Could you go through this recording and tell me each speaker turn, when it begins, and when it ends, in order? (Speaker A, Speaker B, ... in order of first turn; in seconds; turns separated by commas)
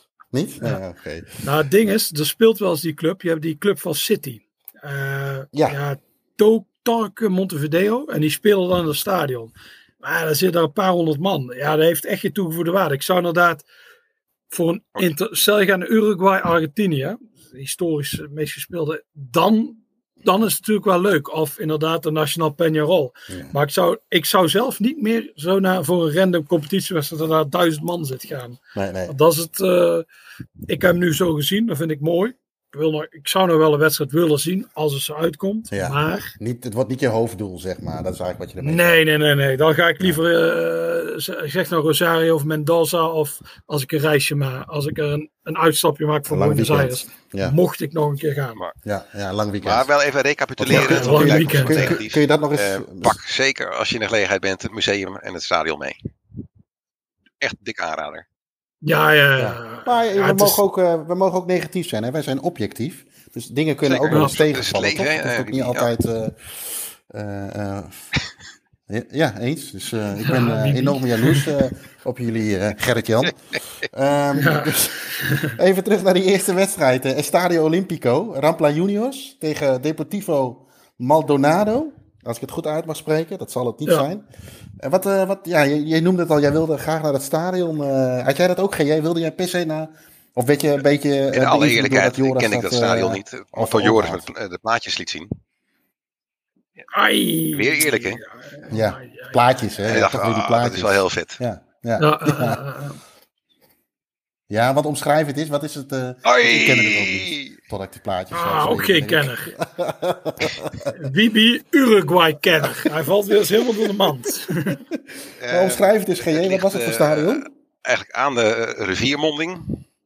Speaker A: 0.3-1.4, Speaker B: 1.4-13.7, Speaker A: 5.5-5.8, Speaker B: 14.5-30.1, Speaker A: 28.8-29.1, Speaker B: 30.7-36.4, Speaker A: 35.7-39.0, Speaker B: 38.6-48.6, Speaker A: 46.3-47.5, Speaker A: 48.8-49.9, Speaker C: 49.6-56.0, Speaker A: 50.6-53.2, Speaker B: 50.7-52.0, Speaker C: 57.4-58.2, Speaker B: 58.8-60.6, Speaker A: 59.4-68.0, Speaker C: 63.9-65.9, Speaker A: 68.9-84.3, Speaker B: 70.2-71.5, Speaker B: 74.4-75.6, Speaker A: 84.8-94.3, Speaker C: 91.3-95.3, Speaker B: 96.9-99.5, Speaker C: 97.5-98.2, Speaker A: 98.7-102.6, Speaker C: 99.8-101.4, Speaker B: 102.0-103.0, Speaker A: 104.5-110.9, Speaker C: 106.2-107.6, Speaker B: 108.3-109.5, Speaker B: 110.9-114.8, Speaker C: 115.4-119.8, Speaker A: 115.5-117.5